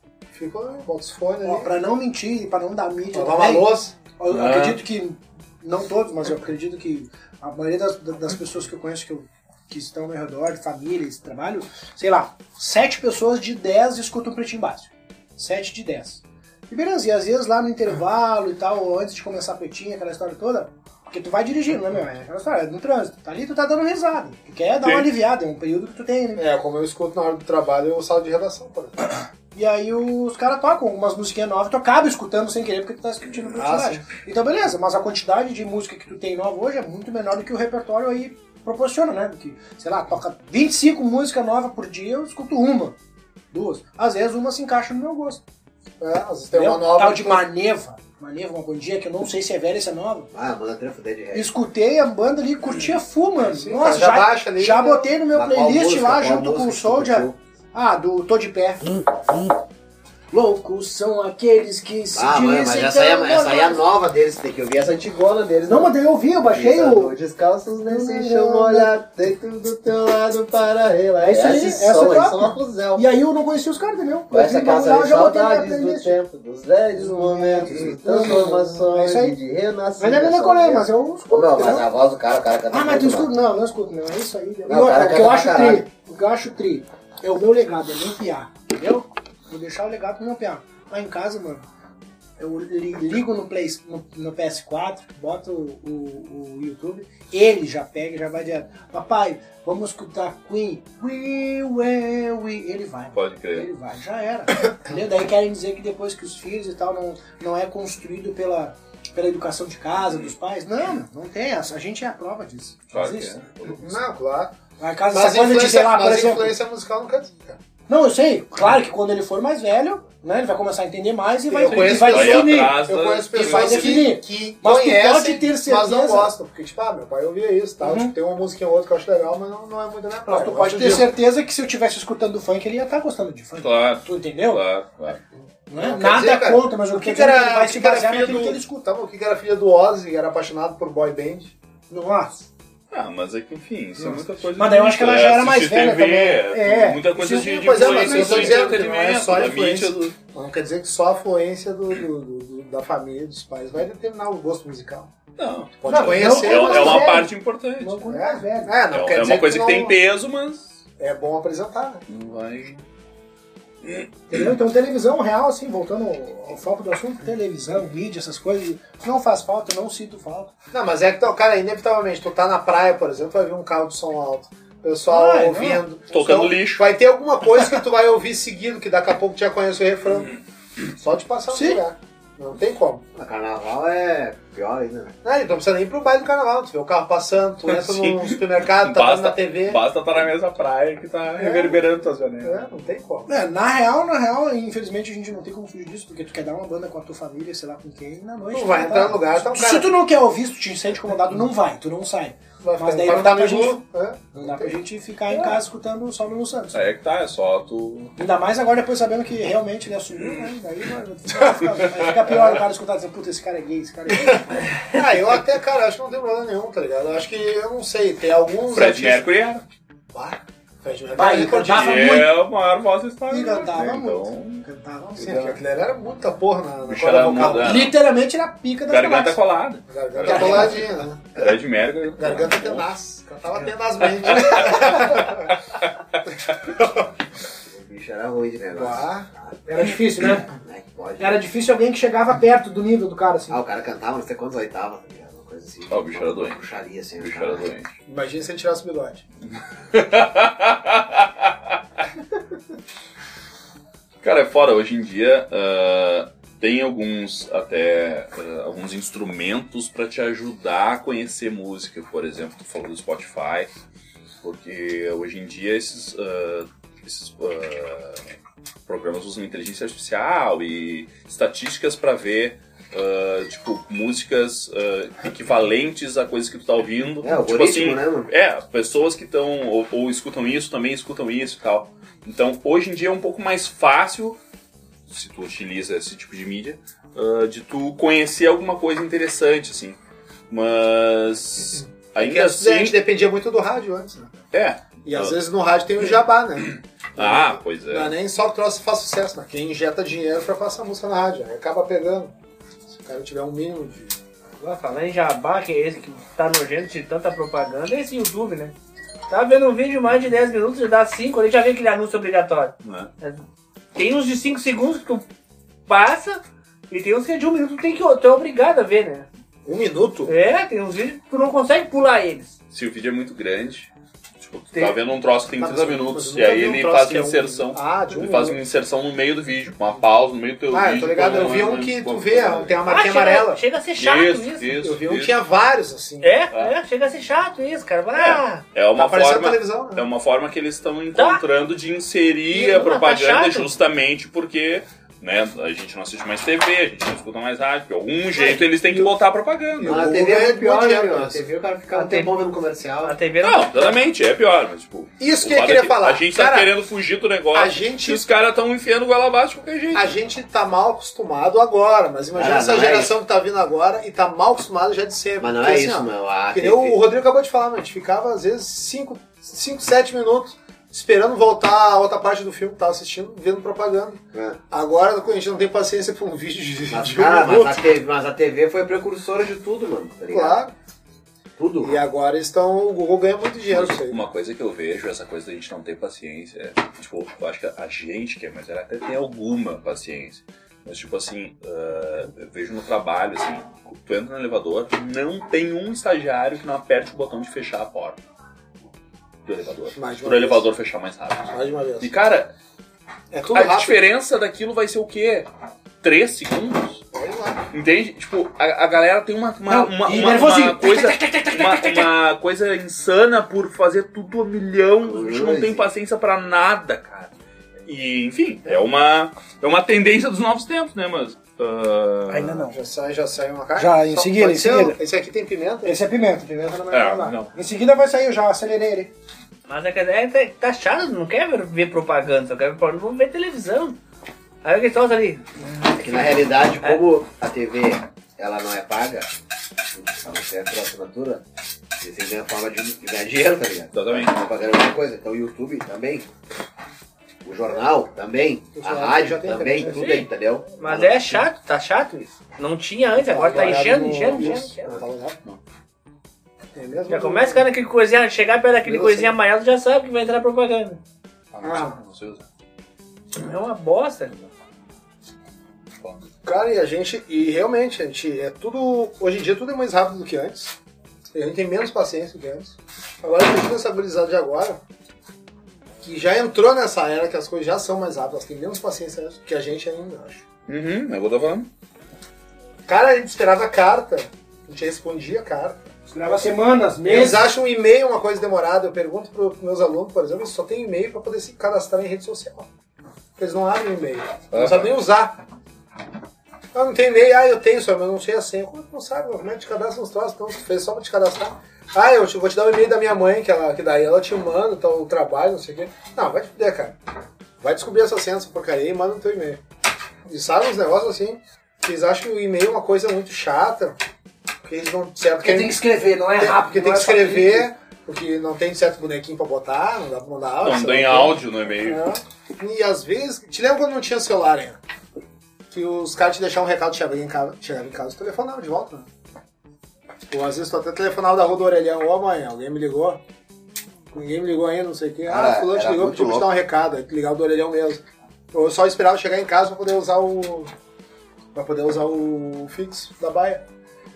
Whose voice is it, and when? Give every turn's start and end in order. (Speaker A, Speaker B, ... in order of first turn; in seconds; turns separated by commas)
Speaker A: 0.3-1.7, Speaker B: 1.4-26.5, Speaker A: 3.1-4.0, Speaker C: 4.3-4.8, Speaker C: 24.8-25.1, Speaker A: 26.4-29.1, Speaker B: 29.5-43.0, Speaker A: 33.5-34.1, Speaker B: 43.5-45.4, Speaker A: 46.0-47.5, Speaker B: 46.5-50.3, Speaker D: 50.3-51.5, Speaker B: 51.3-59.0, Speaker A: 53.4-55.1, Speaker D: 55.3-57.4, Speaker B: 60.3-63.8, Speaker D: 62.1-65.9, Speaker B: 65.7-67.1, Speaker D: 66.5-73.1, Speaker B: 67.9-68.9, Speaker B: 71.2-76.2, Speaker D: 74.3-83.3, Speaker B: 76.9-79.4, Speaker B: 80.0-81.9, Speaker B: 82.7-91.7, Speaker D: 84.7-85.9, Speaker B: 92.4-113.5, Speaker C: 103.1-103.7, Speaker C: 112.9-113.9, Speaker A: 113.7-114.5, Speaker B: 114.8-116.5, Speaker A: 115.1-117.6, Speaker B: 117.9-122.8, Speaker A: 121.5-131.1, Speaker C: 121.8-124.1, Speaker B: 123.3-126.3, Speaker B: 127.8-128.1, Speaker B: 130.3-134.6, Speaker C: 133.6-135.2, Speaker B: 135.7-138.7, Speaker A: 135.8-141.5, Speaker B: 141.9-142.4, Speaker C: 142.9-150.2, Speaker B: 144.0-148.9, Speaker A: 147.2-155.1, Speaker C: 155.4-158.1, Speaker A: 155.8-157.2, Speaker B: 155.9-158.8, Speaker A: 158.1-160.0, Speaker C: 158.9-160.7, Speaker A: 161.0-162.1, Speaker C: 162.1-162.8, Speaker B: 164.3-170.5, Speaker A: 170.7-180.3, Speaker B: 175.1-175.8, Speaker C: 176.1-176.9, Speaker A: 180.9-183.0, Speaker B: 181.5-181.8, Speaker D: 183.2-185.1, Speaker A: 185.2-189.9, Speaker C: 187.7-192.6, Speaker A: 191.4-191.8, Speaker A: 192.4-193.3, Speaker B: 193.3-203.8, Speaker A: 198.5-199.9, Speaker A: 202.6-204.8, Speaker B: 204.3-206.8, Speaker C: 206.7-208.2, Speaker B: 208.2-214.7, Speaker A: 214.3-219.2, Speaker C: 218.7-219.6, Speaker A: 220.1-222.2, Speaker B: 221.2-222.3, Speaker C: 221.7-224.6, Speaker B: 223.3-225.5, Speaker C: 225.2-225.6, Speaker A: 225.2-227.8, Speaker C: 226.9-228.0, Speaker B: 227.6-229.4, Speaker C: 228.9-232.8, Speaker A: 229.9-231.5, Speaker B: 230.3-230.8, Speaker A: 232.2-235.5, Speaker C: 234.3-235.1, Speaker A: 236.8-237.1, Speaker D: 237.7-239.6, Speaker A: 238.7-239.3, Speaker B: 239.7-240.5, Speaker D: 240.6-241.4, Speaker B: 241.2-243.6, Speaker D: 243.5-247.7, Speaker C: 245.9-247.9, Speaker A: 248.1-249.2, Speaker C: 249.9-251.3, Speaker C: 254.2-263.7, Speaker C: 264.4-268.2, Speaker C: 268.9-284.4, Speaker D: 277.2-278.3, Speaker C: 285.1-290.0, Speaker C: 290.5-293.0, Speaker A: 292.2-294.3, Speaker C: 294.5-295.4, Speaker A: 295.1-302.3, Speaker C: 296.7-298.1, Speaker A: 302.9-304.2, Speaker E: 304.6-308.8, Speaker E: 309.3-313.4, Speaker C: 312.8-313.1, Speaker E: 313.9-315.2, Speaker E: 315.9-319.3, Speaker A: 319.6-320.3, Speaker E: 320.3-322.5, Speaker C: 322.7-332.8, Speaker A: 325.6-328.6, Speaker A: 330.7-333.6, Speaker E: 332.9-334.7, Speaker C: 333.9-335.4, Speaker A: 334.8-336.4, Speaker E: 336.2-338.6, Speaker C: 338.1-350.1, Speaker A: 339.0-340.1, Speaker E: 341.1-341.4, Speaker E: 342.5-343.7, Speaker A: 348.4-349.2, Speaker A: 349.8-351.5, Speaker D: 349.8-353.2, Speaker E: 351.9-352.4, Speaker E: 353.0-354.0, Speaker C: 353.4-360.1, Speaker A: 355.2-356.7, Speaker A: 357.5-358.2, Speaker A: 359.9-377.9, Speaker D: 362.4-363.1, Speaker D: 365.4-367.0, Speaker D: 374.3-374.6, Speaker D: 376.9-380.6, Speaker A: 380.3-380.8, Speaker D: 381.6-382.0, Speaker A: 381.8-384.2, Speaker C: 383.7-398.2, Speaker C: 399.5-402.5, Speaker A: 399.9-400.7, Speaker A: 401.5-402.1, Speaker A: 403.3-404.1, Speaker C: 403.5-405.5, Speaker C: 406.0-407.0, Speaker A: 407.1-407.7, Speaker C: 407.7-417.3, Speaker B: 409.7-412.1, Speaker D: 415.0-415.9, Speaker C: 417.9-422.6, Speaker B: 422.3-422.8, Speaker A: 422.7-426.0, Speaker B: 423.8-425.0, Speaker B: 425.8-429.1, Speaker C: 426.9-427.5, Speaker E: 429.7-434.0, Speaker E: 434.6-435.6, Speaker D: 435.9-439.3, Speaker D: 439.9-441.4, Speaker D: 442.0-446.3, Speaker C: 443.9-444.4, Speaker D: 447.4-451.5, Speaker A: 448.8-450.2, Speaker E: 449.9-450.3, Speaker E: 450.8-454.9, Speaker A: 453.1-455.4, Speaker A: 456.8-457.7, Speaker E: 457.1-461.0, Speaker A: 458.8-459.3, Speaker C: 461.5-462.4, Speaker A: 461.6-462.0, Speaker E: 463.4-464.4, Speaker C: 466.0-466.3, Speaker A: 466.4-470.8, Speaker A: 471.3-474.8, Speaker A: 476.0-480.4, Speaker C: 480.7-481.7, Speaker A: 482.9-485.9, Speaker B: 486.1-487.4, Speaker A: 487.0-492.7, Speaker A: 493.4-495.4, Speaker C: 494.5-495.0, Speaker A: 496.7-507.0, Speaker A: 507.6-509.6, Speaker A: 510.3-514.0, Speaker A: 514.6-515.8, Speaker B: 515.4-517.7, Speaker A: 516.4-521.4, Speaker C: 520.6-522.0, Speaker B: 521.9-522.2, Speaker A: 522.6-524.8, Speaker A: 525.7-529.1, Speaker A: 530.3-533.2, Speaker A: 534.1-540.7, Speaker D: 535.3-536.5, Speaker A: 541.5-543.6